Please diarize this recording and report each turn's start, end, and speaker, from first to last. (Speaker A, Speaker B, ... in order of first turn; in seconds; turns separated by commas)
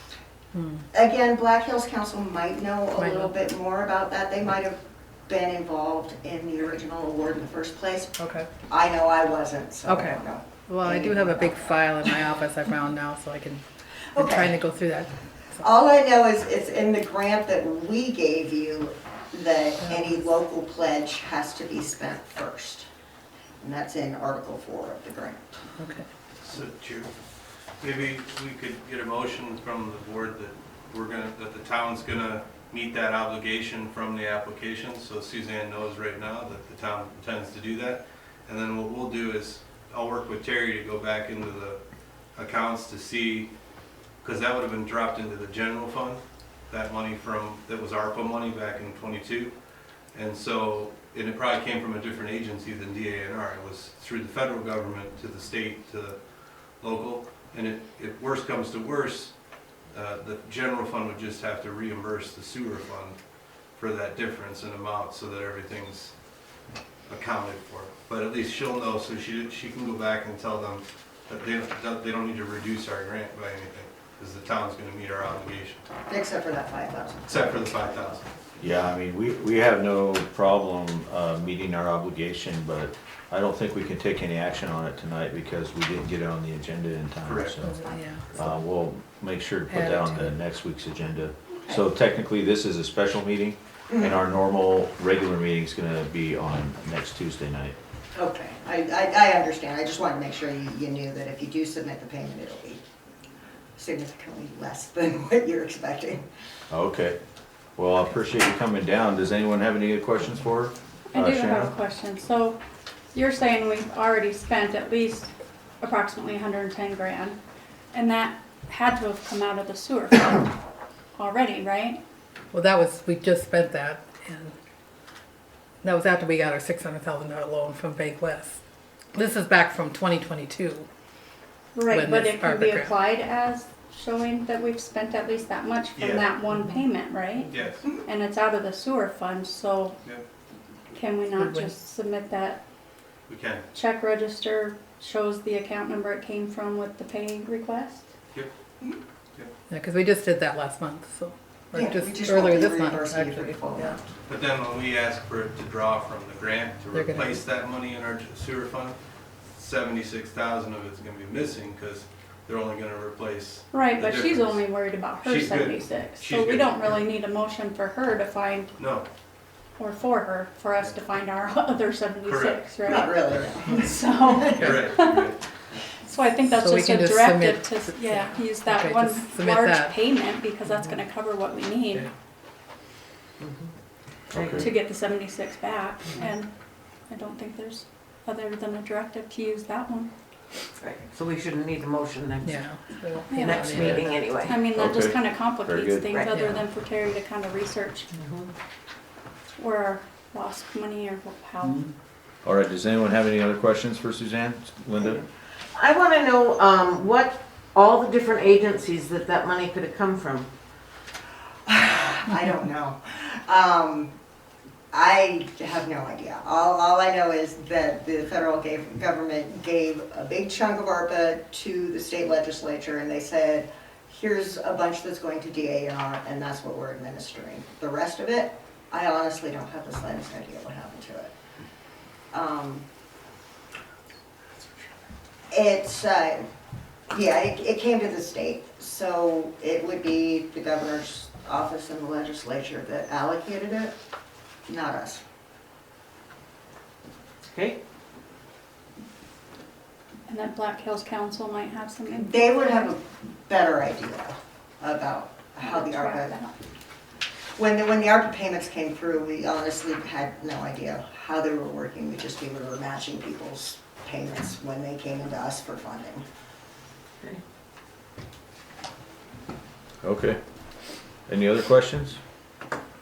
Speaker A: 0.5-0.8, Speaker B: 0.9-8.1, Speaker A: 3.0-3.3, Speaker A: 8.2-8.5, Speaker B: 8.7-12.1, Speaker A: 9.8-13.6, Speaker B: 14.1-14.6, Speaker A: 14.2-15.6, Speaker B: 15.6-22.9, Speaker A: 19.8-20.1, Speaker B: 23.6-25.6, Speaker A: 25.8-26.1, Speaker C: 26.4-27.1, Speaker C: 27.8-41.8, Speaker C: 42.3-43.5, Speaker C: 44.2-49.5, Speaker C: 50.1-56.2, Speaker C: 56.8-59.3, Speaker C: 59.9-63.2, Speaker C: 63.7-66.1, Speaker C: 67.1-75.8, Speaker B: 76.1-77.8, Speaker C: 77.3-78.3, Speaker D: 78.6-87.8, Speaker C: 87.2-88.4, Speaker A: 87.6-88.3, Speaker D: 88.3-97.8, Speaker A: 89.7-90.3, Speaker B: 93.9-94.2, Speaker B: 98.1-102.8, Speaker B: 103.8-106.2, Speaker D: 106.7-107.2, Speaker D: 107.8-111.7, Speaker E: 111.1-112.6, Speaker E: 113.1-117.4, Speaker E: 117.9-120.5, Speaker E: 121.2-122.0, Speaker A: 122.5-124.5, Speaker A: 125.8-128.6, Speaker A: 129.1-130.9, Speaker E: 131.7-140.0, Speaker A: 131.9-132.9, Speaker C: 135.9-136.3, Speaker A: 136.5-136.8, Speaker C: 137.4-137.8, Speaker E: 140.9-142.6, Speaker A: 141.3-141.7, Speaker C: 143.3-143.6, Speaker E: 143.7-148.1, Speaker A: 149.7-153.9, Speaker B: 151.7-154.0, Speaker C: 154.3-158.9, Speaker A: 156.9-157.4, Speaker C: 159.6-164.6, Speaker E: 163.7-168.7, Speaker C: 165.2-167.0, Speaker C: 168.8-169.1, Speaker E: 169.8-175.3, Speaker C: 172.2-172.6, Speaker B: 172.8-174.7, Speaker C: 174.6-175.4, Speaker E: 176.0-182.1, Speaker A: 176.6-180.0, Speaker F: 183.4-183.7, Speaker F: 184.3-184.7, Speaker D: 184.3-184.7, Speaker E: 184.6-186.5, Speaker E: 187.1-190.1, Speaker F: 190.8-192.8, Speaker A: 192.4-194.1, Speaker E: 193.3-198.1, Speaker F: 193.3-194.7, Speaker D: 194.7-196.2, Speaker F: 196.1-196.5, Speaker F: 198.1-198.5, Speaker E: 199.6-201.9, Speaker D: 202.4-205.2, Speaker F: 205.7-210.5, Speaker B: 211.7-214.1, Speaker B: 214.9-231.3, Speaker B: 232.3-232.8, Speaker B: 235.5-236.4, Speaker B: 237.1-243.9, Speaker B: 244.7-245.2, Speaker F: 247.4-247.8, Speaker E: 250.3-252.5, Speaker B: 252.1-256.4, Speaker E: 255.6-256.5, Speaker B: 257.6-266.2, Speaker D: 270.0-270.4, Speaker D: 271.3-272.2